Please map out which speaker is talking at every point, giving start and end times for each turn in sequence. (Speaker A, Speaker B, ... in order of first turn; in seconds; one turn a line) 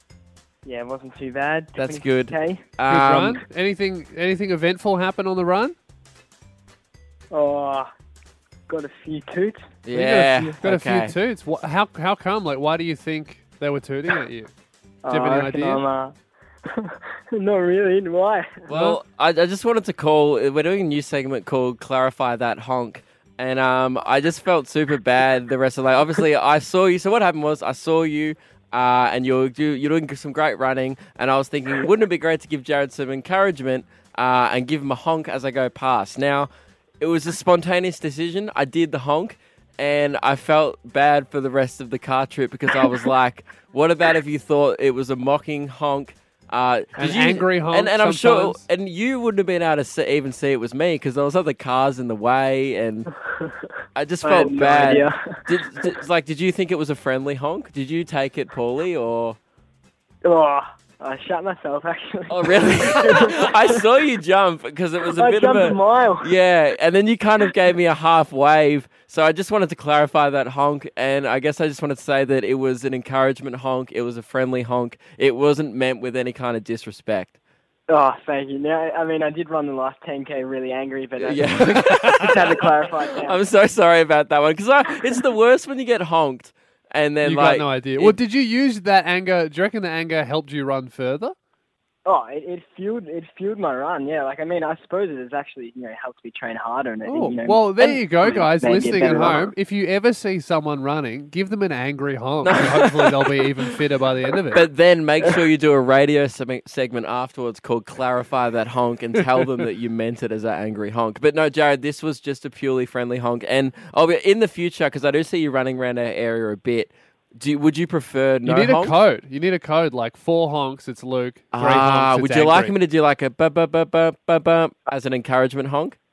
Speaker A: 0.6-2.7
Speaker B: 1.8-3.4
Speaker C: 2.9-5.8
Speaker A: 7.3-7.9
Speaker A: 8.7-9.7
Speaker B: 9.8-11.2
Speaker C: 9.9-14.5
Speaker A: 15.0-16.2
Speaker C: 15.1-15.8
Speaker A: 16.7-18.7
Speaker B: 18.7-53.1
Speaker C: 18.7-19.0
Speaker C: 47.0-48.6
Speaker A: 53.2-53.6
Speaker B: 54.0-59.4
Speaker A: 54.2-56.0
Speaker A: 60.2-63.9
Speaker B: 62.3-77.4
Speaker A: 65.0-66.3
Speaker A: 77.9-83.4
Speaker B: 81.2-88.2
Speaker C: 81.5-82.5
Speaker C: 87.2-91.3
Speaker A: 92.0-99.5
Speaker C: 97.1-104.6
Speaker B: 102.4-103.5
Speaker B: 104.5-119.0
Speaker C: 118.4-122.7
Speaker B: 121.5-126.0